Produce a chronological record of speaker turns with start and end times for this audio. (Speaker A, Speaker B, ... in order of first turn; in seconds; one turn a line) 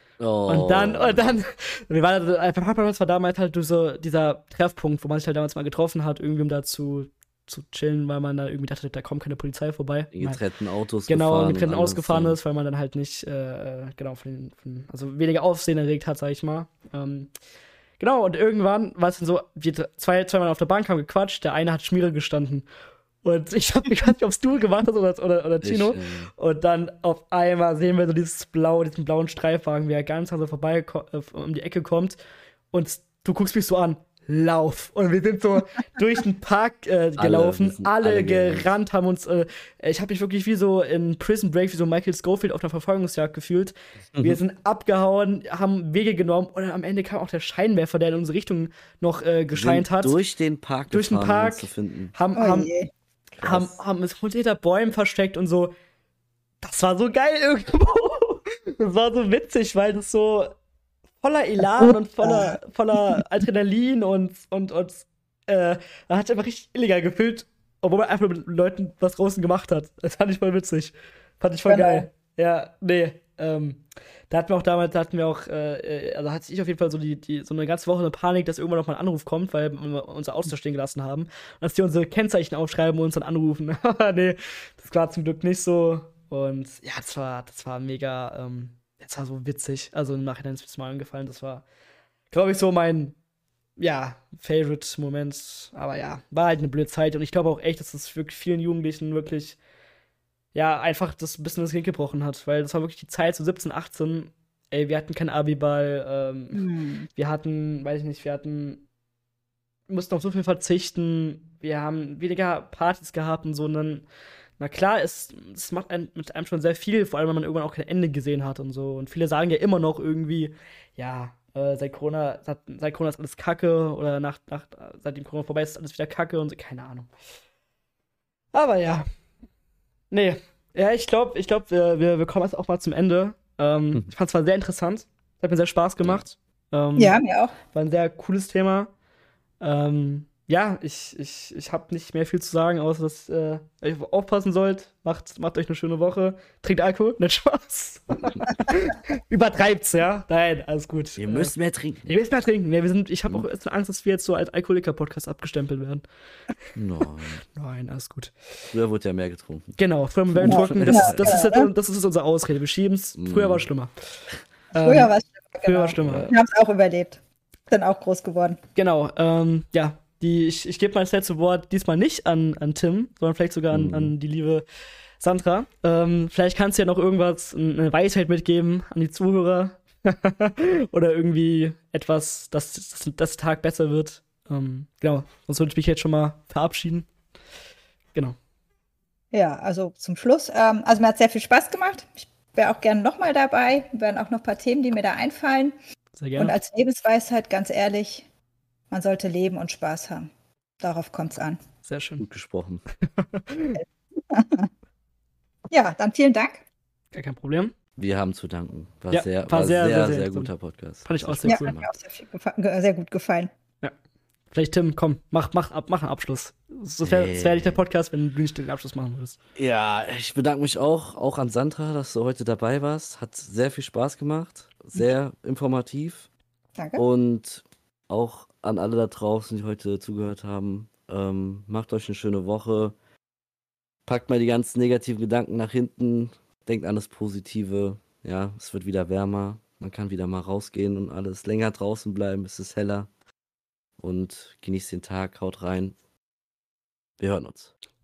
Speaker A: 0.2-1.3
Speaker B: 0.5-10.4
Speaker A: 10.1-12.4
Speaker B: 11.1-17.3
Speaker B: 18.0-22.7
Speaker B: 23.2-32.2
Speaker A: 25.6-26.3
Speaker B: 32.7-50.1
Speaker A: 37.2-38.7
Speaker A: 44.1-44.4
Speaker A: 49.5-52.1
Speaker B: 50.9-52.7
Speaker C: 52.4-52.9
Speaker B: 53.4-55.7
Speaker A: 53.4-53.7
Speaker B: 56.6-60.6
Speaker B: 61.2-91.7
Speaker C: 61.8-62.6
Speaker C: 71.7-72.1
Speaker B: 92.3-93.2
Speaker B: 93.8-99.6
Speaker B: 100.5-108.8
Speaker C: 106.5-107.1
Speaker B: 109.9-114.0
Speaker B: 114.6-127.1
Speaker B: 128.5-129.1
Speaker B: 130.1-137.2
Speaker C: 137.0-137.6
Speaker B: 137.7-138.9
Speaker B: 139.6-151.5
Speaker A: 151.2-152.1
Speaker B: 152.1-156.1
Speaker A: 156.8-157.4
Speaker B: 157.6-158.3
Speaker A: 158.7-159.8
Speaker B: 159.8-164.2
Speaker A: 160.4-161.4
Speaker C: 160.4-161.7
Speaker A: 163.2-163.7
Speaker B: 164.7-165.1
Speaker C: 164.8-167.2
Speaker B: 165.7-166.3
Speaker C: 167.7-168.6
Speaker B: 168.8-174.6
Speaker A: 173.7-174.1
Speaker B: 175.2-187.1
Speaker C: 189.3-195.8
Speaker B: 196.2-196.5
Speaker C: 196.4-198.3
Speaker C: 198.9-200.3
Speaker C: 200.8-201.6
Speaker B: 201.8-202.2
Speaker A: 202.2-202.8
Speaker B: 203.0-203.8
Speaker C: 204.3-204.7
Speaker C: 205.7-206.6
Speaker B: 207.1-207.7
Speaker A: 208.0-211.9
Speaker B: 209.1-210.5
Speaker B: 211.1-211.7
Speaker C: 211.4-213.5
Speaker B: 214.5-219.4
Speaker A: 217.0-217.8
Speaker A: 219.6-226.3
Speaker C: 226.8-227.0
Speaker A: 227.0-232.9
Speaker A: 234.1-243.1
Speaker A: 244.0-246.0
Speaker A: 247.2-247.7